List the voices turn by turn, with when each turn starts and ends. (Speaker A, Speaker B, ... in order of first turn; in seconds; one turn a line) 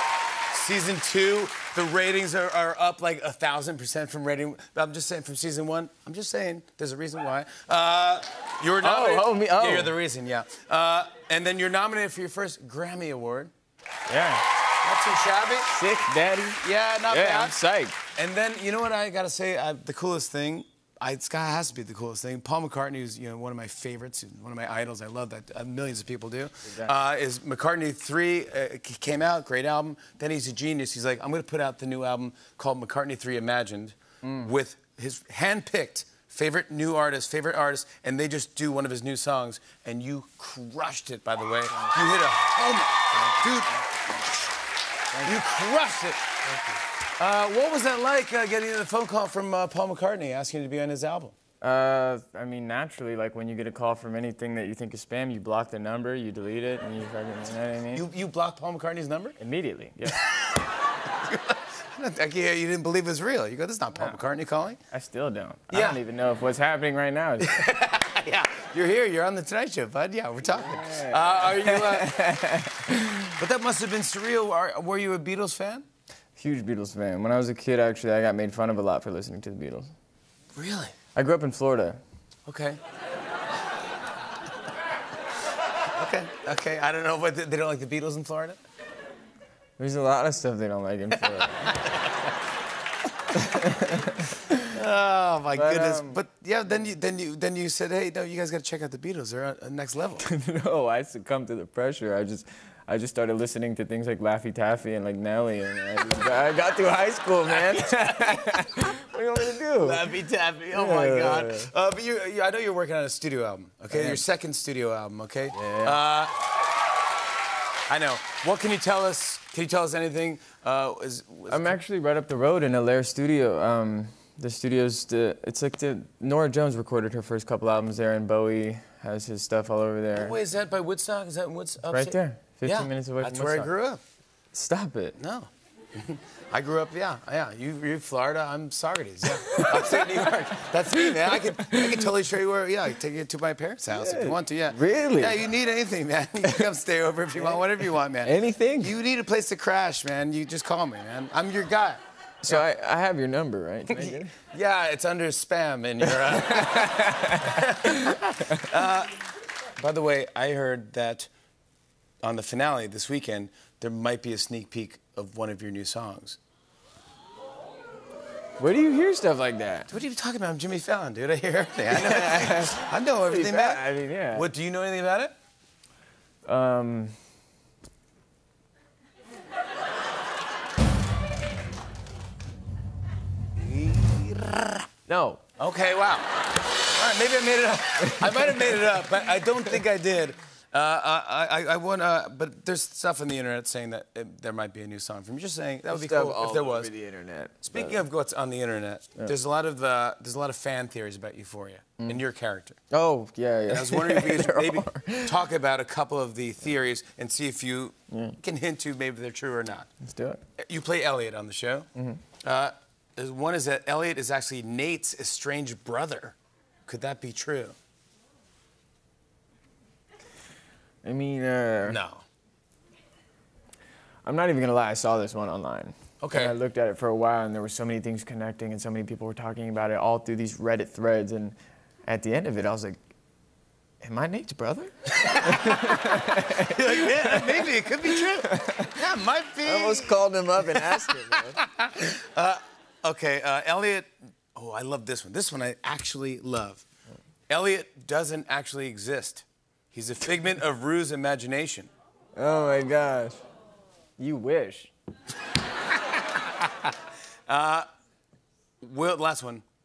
Speaker A: 0.5-13.5
Speaker B: 8.8-9.9
Speaker B: 14.1-14.5
Speaker A: 14.8-15.7
Speaker B: 15.7-18.0
Speaker A: 16.6-17.6
Speaker A: 18.2-43.8
Speaker B: 26.6-26.9
Speaker B: 34.2-34.5
Speaker B: 41.9-42.3
Speaker B: 43.1-43.8
Speaker B: 45.1-45.5
Speaker A: 45.2-46.4
Speaker B: 46.5-46.8
Speaker A: 47.2-51.4
Speaker B: 51.6-58.0
Speaker A: 57.9-59.4
Speaker B: 59.4-60.2
Speaker A: 60.1-64.8
Speaker B: 64.0-64.2
Speaker B: 64.9-67.6
Speaker A: 65.7-66.0
Speaker A: 67.4-72.1
Speaker B: 70.5-73.3
Speaker A: 73.4-75.8
Speaker B: 76.4-79.9
Speaker A: 80.5-81.0
Speaker B: 81.2-82.0
Speaker A: 82.5-82.8
Speaker A: 86.0-88.6
Speaker B: 89.8-91.7
Speaker A: 91.2-92.2
Speaker B: 93.3-94.5
Speaker A: 94.6-100.3
Speaker B: 95.5-96.2
Speaker B: 100.2-110.2
Speaker A: 107.5-108.7
Speaker A: 109.8-116.3
Speaker B: 110.7-111.7
Speaker B: 113.9-114.2
Speaker B: 115.5-116.0
Speaker A: 117.9-121.8
Speaker B: 121.5-130.4
Speaker A: 130.1-134.0
Speaker B: 131.9-133.7
Speaker B: 134.5-135.2
Speaker A: 135.2-152.7
Speaker B: 139.4-140.3
Speaker B: 140.9-142.1
Speaker B: 143.9-145.4
Speaker B: 146.4-146.7
Speaker B: 148.2-148.9
Speaker B: 152.4-154.3
Speaker A: 153.9-159.2
Speaker B: 156.0-158.7
Speaker A: 159.8-161.3
Speaker A: 162.2-166.4
Speaker B: 168.6-169.9
Speaker A: 169.9-175.3
Speaker B: 171.9-174.5
Speaker B: 176.4-177.2
Speaker A: 183.6-184.9
Speaker B: 185.1-185.4
Speaker A: 185.6-186.3
Speaker A: 186.8-196.9
Speaker B: 188.2-188.5
Speaker B: 195.9-198.0
Speaker A: 197.6-202.8
Speaker B: 202.9-205.4
Speaker A: 203.7-209.9
Speaker B: 208.1-208.4
Speaker B: 210.0-210.4
Speaker A: 210.6-211.9
Speaker B: 212.0-212.2
Speaker A: 212.4-216.4
Speaker A: 216.9-217.8
Speaker B: 221.0-222.0
Speaker A: 221.9-222.2
Speaker B: 224.2-233.0
Speaker A: 226.2-226.6
Speaker B: 234.0-239.0
Speaker A: 235.2-236.0
Speaker A: 236.6-246.8
Speaker B: 239.6-241.6
Speaker A: 247.5-251.9
Speaker B: 252.4-253.4
Speaker B: 254.2-254.9
Speaker A: 256.1-256.9
Speaker A: 257.5-257.9
Speaker A: 258.8-259.6